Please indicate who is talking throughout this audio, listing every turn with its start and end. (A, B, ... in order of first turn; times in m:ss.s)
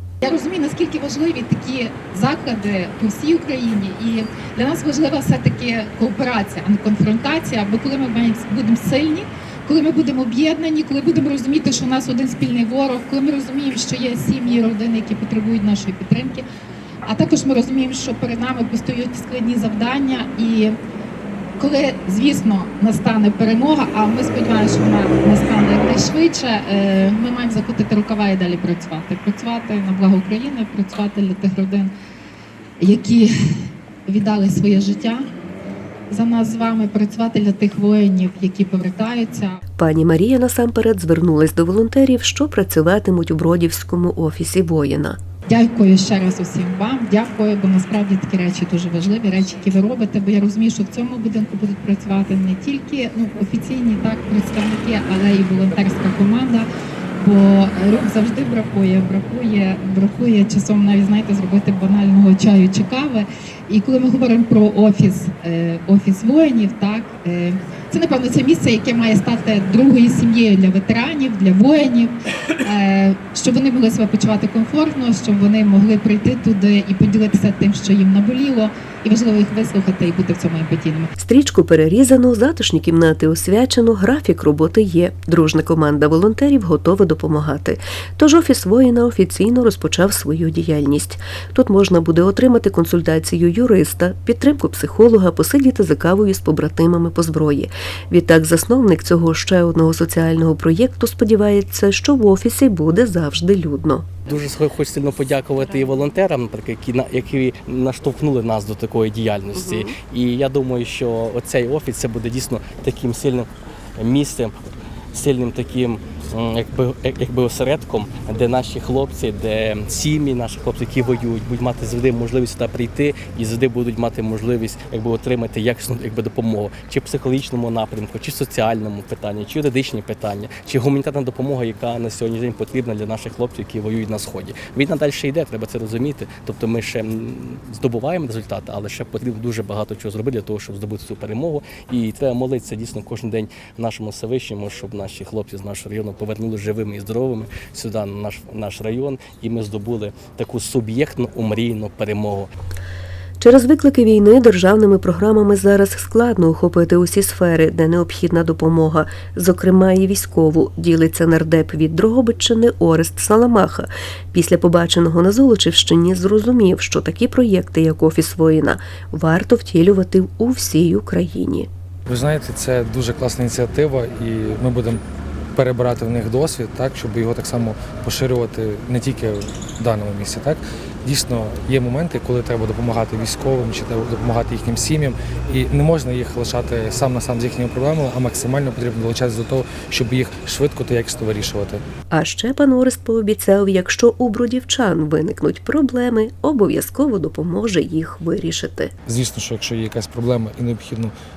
0:00.2-0:16.4 A
0:17.0-0:20.7 A
0:21.6-0:31.9 A
0:32.8-0:33.3 A
0:34.1-0:35.3 A
0:36.1-0:39.6 A
0:39.8-0:45.2 B
0:45.5-1:21.1 A
1:21.2-1:44.0 B
1:44.3-1:53.4 C
1:49.5-1:49.9 B
1:49.6-1:50.0 A
1:54.0-1:54.5 C
1:55.1-2:32.4 C
2:33.4-2:51.7 B
2:52.1-2:55.0 D
2:55.5-3:11.8 D
3:12.1-3:18.9 B
3:19.0-3:21.1 D